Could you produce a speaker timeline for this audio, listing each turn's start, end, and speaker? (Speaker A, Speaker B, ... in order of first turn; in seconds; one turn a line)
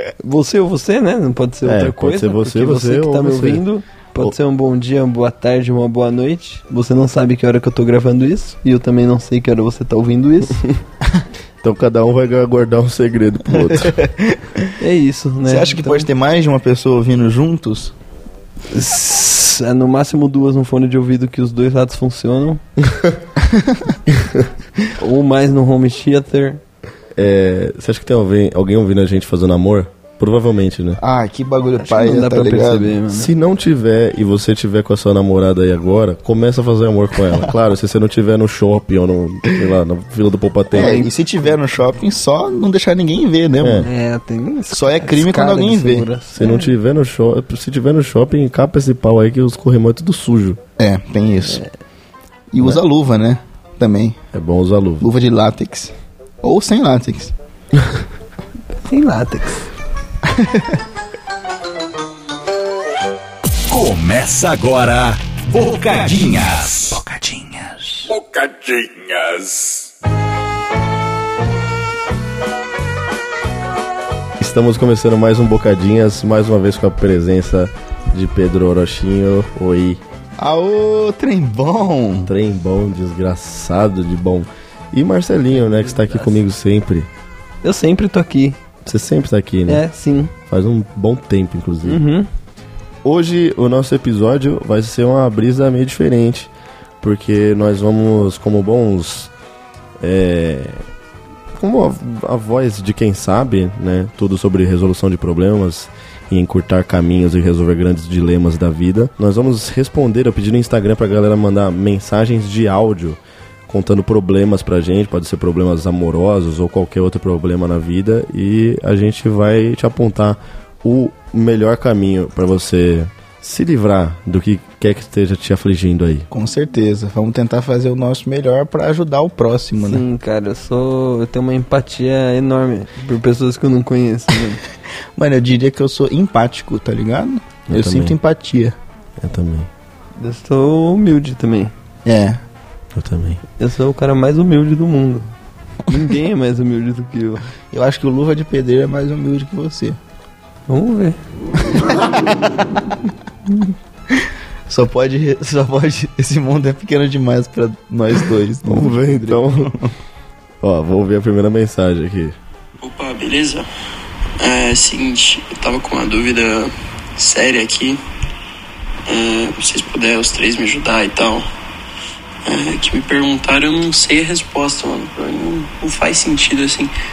Speaker A: 0.2-10.8
Speaker B: 1.6-3.6
Speaker B: 11.6-14.0
Speaker C: 13.9-14.6
Speaker A: 14.8-16.1
Speaker C: 15.4-17.9
Speaker A: 18.7-22.6
Speaker B: 22.8-23.2
Speaker C: 23.4-23.9
Speaker B: 24.1-24.5
Speaker A: 25.0-26.6
Speaker B: 27.1-31.0
Speaker C: 31.0-33.0
Speaker A: 31.8-33.3
Speaker B: 33.1-41.0
Speaker A: 40.7-41.1
Speaker C: 40.7-43.9
Speaker B: 43.6-43.9
Speaker A: 43.8-46.7
Speaker C: 44.7-46.1
Speaker B: 46.3-50.6
Speaker C: 50.8-51.6
Speaker C: 52.5-54.2
Speaker B: 54.3-55.0
Speaker C: 55.0-57.3
Speaker A: 58.8-59.7
Speaker C: 60.3-60.7
Speaker D: 63.7-69.9
Speaker B: 74.4-80.0
Speaker C: 80.4-82.3
Speaker B: 82.3-87.1
Speaker A: 85.5-86.4
Speaker A: 87.6-88.6
Speaker B: 88.8-89.8
Speaker A: 89.7-90.3
Speaker B: 90.5-92.0
Speaker A: 91.8-92.3
Speaker B: 93.0-99.3
Speaker B: 100.0-100.8
Speaker B: 101.5-126.3
Speaker C: 126.3-130.0
Speaker A: 129.8-134.6
Speaker C: 135.2-138.8
Speaker B: 137.7-138.2
Speaker B: 139.2-139.7
Speaker A: 140.2-141.7
Speaker C: 142.1-142.4
Speaker B: 142.9-143.4
Speaker A: 143.6-145.3
Speaker A: 145.9-147.4
Speaker C: 147.7-150.0
Speaker A: 150.7-151.2
Speaker C: 151.6-152.3
Speaker C: 154.7-159.8
Speaker B: 158.6-159.7
Speaker B: 160.6-162.3
Speaker E: 162.8-163.7
Speaker E: 164.4-168.0
Speaker E: 169.1-171.5
Speaker E: 172.4-176.9